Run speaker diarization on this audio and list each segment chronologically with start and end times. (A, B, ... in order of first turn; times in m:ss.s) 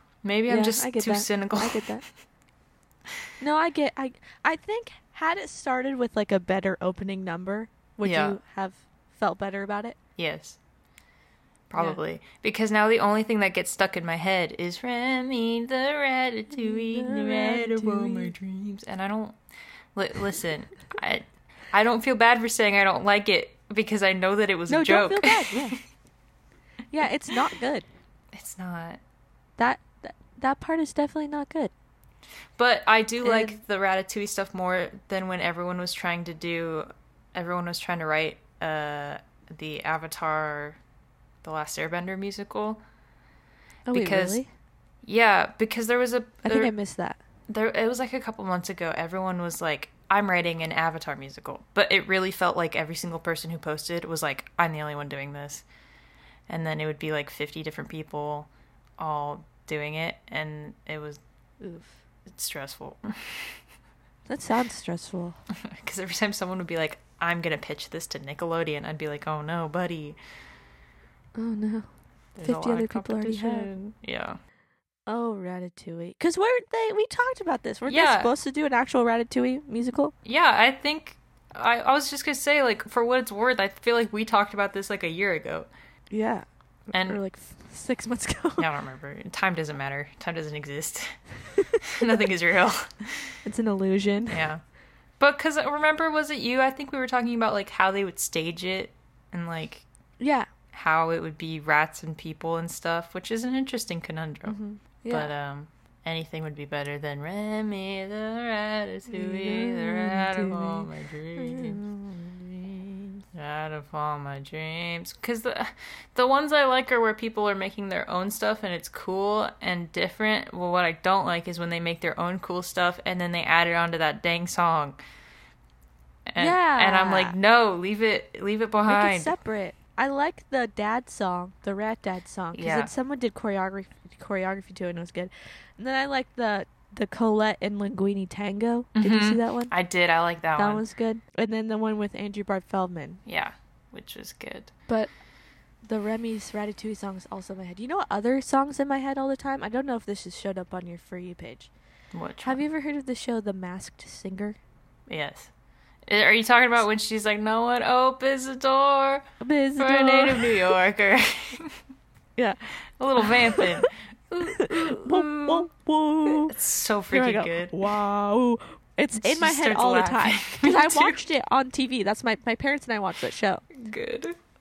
0:00.2-0:01.9 A
0:00.5-0:02.0 B
0:03.4-0:10.0 B
0:08.0-0:08.4 A
0:10.2-0:10.6 A
0:11.7-0:19.4 A
0:16.6-0:18.3 B
0:20.0-0:25.7 A
0:24.7-0:25.8 B
0:26.9-0:27.9 B
0:28.3-0:29.0 A
0:29.6-0:31.7 B
0:32.6-0:40.8 A
0:33.2-0:33.6 B
0:41.4-0:42.8 A
0:43.9-0:44.5 B
0:43.9-0:44.4 A
0:45.0-0:46.7 A
0:46.4-0:47.2 B
0:47.5-0:55.6 A
0:56.5-1:01.2 A
1:01.6-1:02.0 B
1:02.3-1:03.6 A
1:04.3-1:05.4 B
1:05.6-1:10.2 A
1:11.4-1:13.7 B
1:12.4-1:14.4 A
1:15.1-1:20.1 B
1:17.9-1:18.3 A
1:20.2-1:25.7 A
1:26.1-1:28.7 B
1:26.9-1:27.2 A
1:28.6-1:31.2 A
1:31.8-1:33.4 A
1:33.4-1:34.4 B
1:34.3-1:34.6 A
1:35.2-1:39.8 A
1:40.2-1:40.5 B
1:40.7-1:51.8 A
1:44.5-1:45.3 B
1:49.1-1:53.2 B
1:53.3-2:05.0 A
2:06.3-2:09.3 A
2:06.4-2:07.4 B
2:08.9-2:19.7 B
2:12.5-2:12.9 A
2:19.0-2:20.8 A
2:20.6-2:23.2 B
2:23.3-2:24.7 A
2:25.8-2:31.7 B
2:32.1-2:32.6 A
2:32.4-2:34.6 B
2:35.1-2:35.5 A
2:36.1-2:39.2 A
2:39.4-2:40.7 B
2:39.8-2:41.8 A
2:43.0-2:45.7 A
2:43.2-2:43.9 B
2:44.5-2:46.6 B
2:46.2-2:47.8 A
2:47.1-2:53.6 B
2:49.2-2:51.2 A
2:53.7-2:54.4 A